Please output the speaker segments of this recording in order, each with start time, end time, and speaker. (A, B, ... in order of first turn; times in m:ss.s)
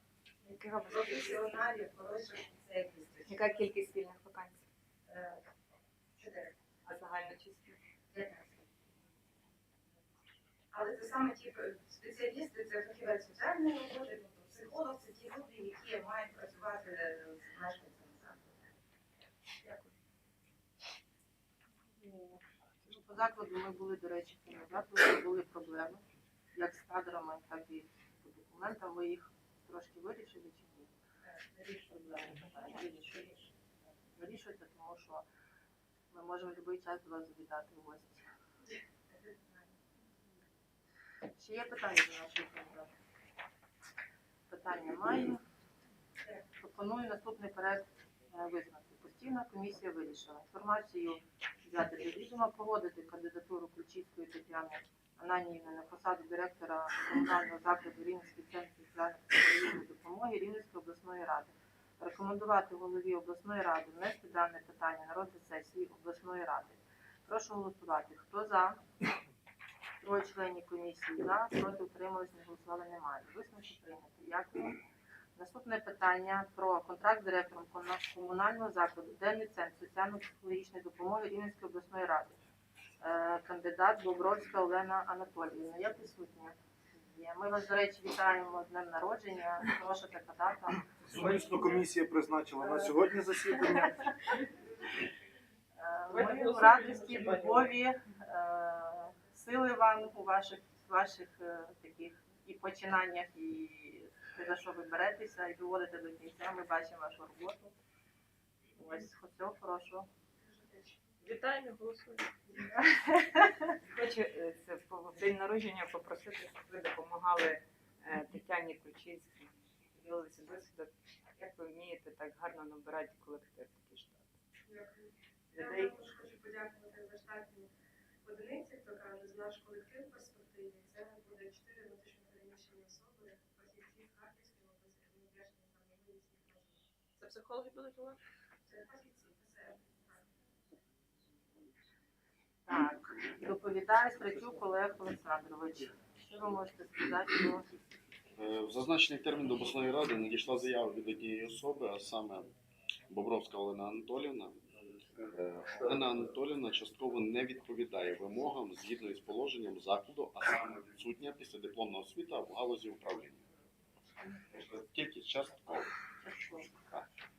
0:00.4-0:03.5 A
0:00.6-0:01.6 B
0:03.3-0:04.6 B
0:05.0-0:05.4 A
0:06.2-0:06.6 A
0:06.8-0:07.8 B
0:08.1-0:09.2 A
0:10.7-0:18.6 A
0:22.0-0:26.0 C
0:26.5-0:30.9 C
0:31.2-0:33.5 A
0:31.9-0:33.3 C
0:34.2-0:35.2 C
0:36.1-0:38.2 C
0:39.1-0:39.8 A
0:41.4-0:42.9 C
0:44.5-0:45.4 C
0:46.6-1:08.8 C
1:10.0-1:14.8 C
1:15.4-1:22.4 C
1:23.0-1:31.3 C
1:31.0-1:34.1 D
1:35.8-1:47.7 C
1:36.1-1:37.8 E
1:48.8-1:50.1 C
1:50.5-1:51.1 F
1:51.2-1:52.4 E
1:53.8-2:04.3 B
2:04.6-2:07.7 F
2:05.5-2:06.1 B
2:08.2-2:16.8 F
2:17.2-2:18.2 E
2:18.7-2:20.2 F
2:22.7-2:27.7 C
2:28.4-2:32.5 G
2:33.1-2:34.6 G
2:35.3-2:43.4 G
2:44.5-2:47.1 G
2:46.2-2:46.6 C